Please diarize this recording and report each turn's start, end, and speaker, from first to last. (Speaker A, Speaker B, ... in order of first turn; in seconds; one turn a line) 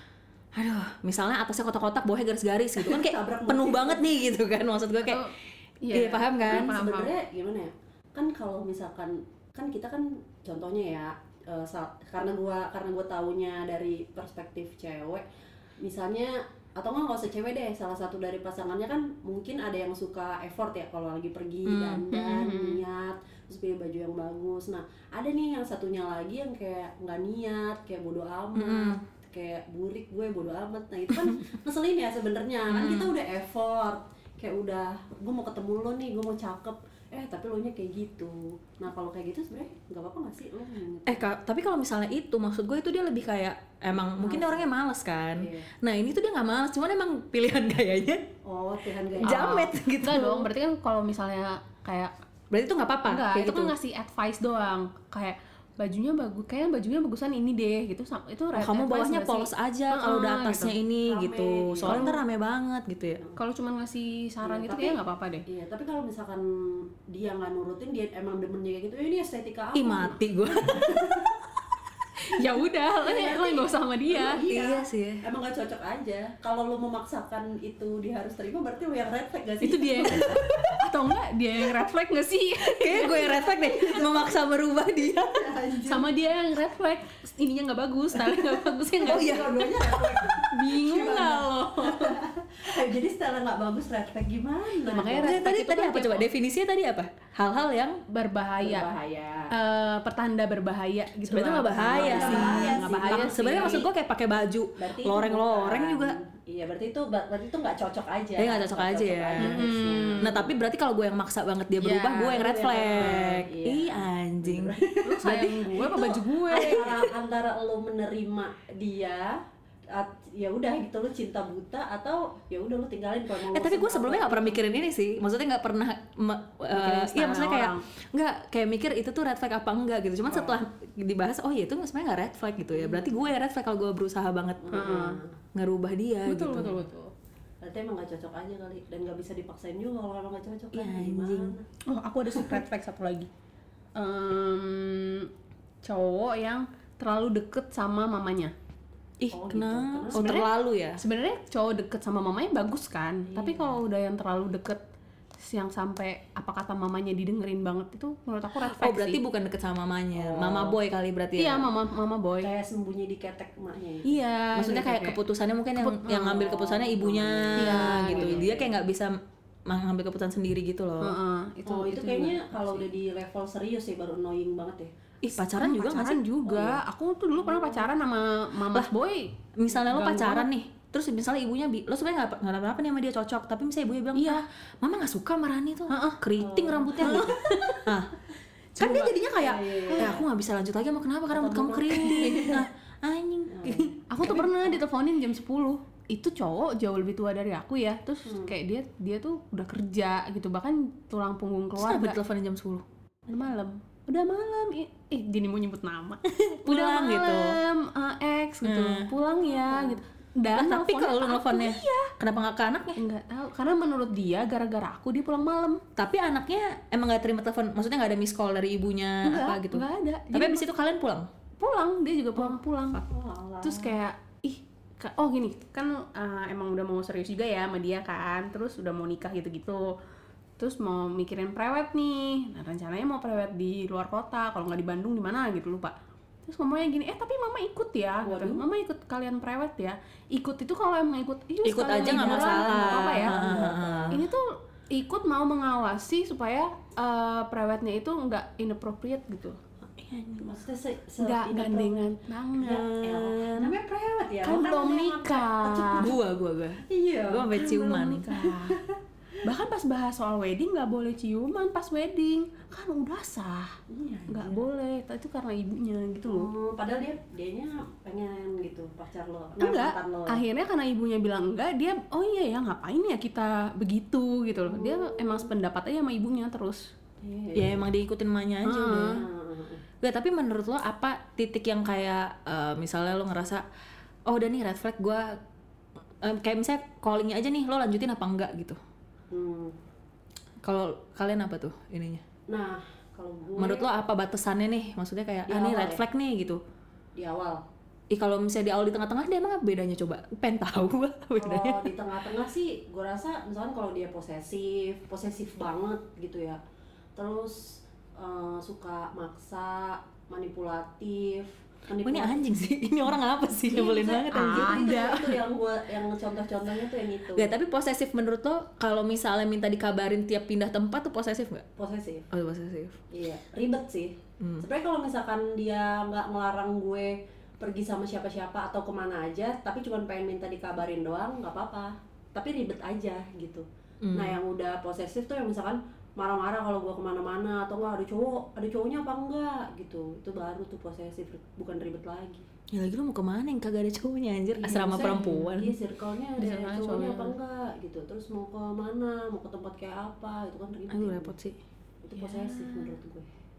Speaker A: 0.6-5.3
Speaker B: 2.8-4.1
Speaker C: 5.0-7.1
Speaker A: 5.9-6.8
Speaker B: 6.4-15.2
Speaker B: 15.8-41.3
Speaker A: 21.7-22.1
Speaker C: 22.1-22.8
Speaker A: 28.6-29.0
Speaker A: 32.7-33.1
Speaker A: 41.1-48.2
Speaker B: 44.1-44.7
Speaker B: 45.4-45.7
Speaker B: 48.5-49.7
Speaker A: 49.2-50.5
Speaker C: 49.2-52.1
Speaker A: 52.5-53.7
Speaker C: 53.1-60.8
Speaker A: 58.5-63.2
Speaker B: 61.0-62.1
Speaker C: 61.8-62.2
Speaker C: 63.4-65.5
Speaker B: 64.4-71.4
Speaker A: 69.7-71.4
Speaker C: 72.2-74.4
Speaker B: 73.0-80.3
Speaker A: 74.5-75.2
Speaker C: 79.6-83.5
Speaker A: 80.1-80.8
Speaker A: 82.6-85.5
Speaker B: 83.2-84.3
Speaker B: 85.2-86.1
Speaker C: 85.9-89.5
Speaker B: 89.0-95.4
Speaker A: 89.0-90.3
Speaker C: 90.4-92.2
Speaker C: 94.8-96.3
Speaker A: 95.0-98.0
Speaker C: 98.1-98.9
Speaker B: 98.6-99.5
Speaker C: 99.5-103.8
Speaker A: 101.3-106.2
Speaker B: 101.9-103.9
Speaker B: 104.8-110.5
Speaker A: 108.4-109.7
Speaker C: 109.4-110.4
Speaker A: 110.2-117.1
Speaker C: 111.8-112.4
Speaker B: 112.2-119.4
Speaker C: 115.0-116.8
Speaker B: 119.9-124.6
Speaker A: 123.5-135.0
Speaker C: 126.7-127.8
Speaker B: 130.3-130.6
Speaker B: 132.7-133.1
Speaker B: 134.6-135.4
Speaker C: 134.7-135.2
Speaker A: 135.6-136.8
Speaker C: 136.2-137.1
Speaker B: 137.6-141.7
Speaker A: 140.7-141.6
Speaker C: 141.9-143.3
Speaker C: 144.0-145.3
Speaker C: 145.8-148.5
Speaker A: 149.2-151.0
Speaker B: 149.3-150.3
Speaker C: 150.1-154.8
Speaker B: 153.3-153.8
Speaker C: 155.4-159.2
Speaker A: 158.6-161.7
Speaker B: 160.2-160.8
Speaker C: 161.4-162.5
Speaker B: 162.4-164.2
Speaker C: 164.1-165.2
Speaker A: 164.5-171.2
Speaker C: 165.8-166.5
Speaker B: 166.1-168.8
Speaker C: 167.6-168.4
Speaker C: 171.0-172.9
Speaker B: 171.7-174.9
Speaker A: 175.2-176.2
Speaker C: 175.4-180.5
Speaker B: 176.4-176.8
Speaker B: 177.4-177.9
Speaker A: 179.6-188.2
Speaker C: 184.1-184.4
Speaker C: 185.9-186.2
Speaker B: 186.4-187.8
Speaker C: 187.0-187.9
Speaker A: 188.8-193.9
Speaker C: 188.8-189.1
Speaker B: 189.3-190.2
Speaker B: 191.3-192.7
Speaker B: 193.5-194.8
Speaker C: 194.1-202.2
Speaker B: 198.3-198.5
Speaker A: 201.8-202.8
Speaker C: 203.3-212.1
Speaker A: 206.7-207.6
Speaker A: 208.6-209.1
Speaker B: 209.7-210.0
Speaker A: 210.6-213.0
Speaker C: 213.0-215.8
Speaker A: 216.0-221.3
Speaker C: 219.2-220.7
Speaker C: 221.6-223.0
Speaker B: 223.0-224.0
Speaker C: 223.6-229.9
Speaker C: 230.6-243.4
Speaker B: 238.2-238.6
Speaker A: 241.6-244.2
Speaker B: 242.0-244.2
Speaker C: 244.1-249.6
Speaker A: 250.0-250.5
Speaker B: 250.4-256.2
Speaker C: 251.2-253.0
Speaker A: 253.1-253.7
Speaker C: 254.4-256.1
Speaker A: 256.0-258.3
Speaker B: 256.9-257.6
Speaker C: 257.5-258.8
Speaker B: 258.4-259.0
Speaker C: 259.4-266.5
Speaker B: 263.9-264.7
Speaker B: 266.2-270.4
Speaker C: 269.6-276.9
Speaker B: 274.6-275.5
Speaker B: 277.2-277.9
Speaker A: 277.6-279.2
Speaker C: 278.6-279.2
Speaker B: 279.0-279.8
Speaker A: 280.0-283.6
Speaker A: 284.3-285.4
Speaker A: 286.2-288.8
Speaker B: 289.3-289.8
Speaker A: 290.6-292.2
Speaker B: 292.5-293.9
Speaker A: 293.6-296.6
Speaker B: 295.5-296.0
Speaker B: 297.2-297.6
Speaker A: 298.1-301.9
Speaker B: 301.4-306.6
Speaker B: 307.2-312.4
Speaker A: 312.0-315.2
Speaker B: 313.7-317.5
Speaker C: 314.3-315.3
Speaker A: 317.3-321.7
Speaker B: 321.8-322.3
Speaker A: 322.3-323.0
Speaker B: 323.1-342.5
Speaker A: 324.4-324.7
Speaker A: 334.0-334.4
Speaker A: 342.7-345.8
Speaker B: 344.6-351.3
Speaker C: 346.4-347.4
Speaker A: 350.9-351.6
Speaker B: 352.0-353.3
Speaker C: 352.1-352.9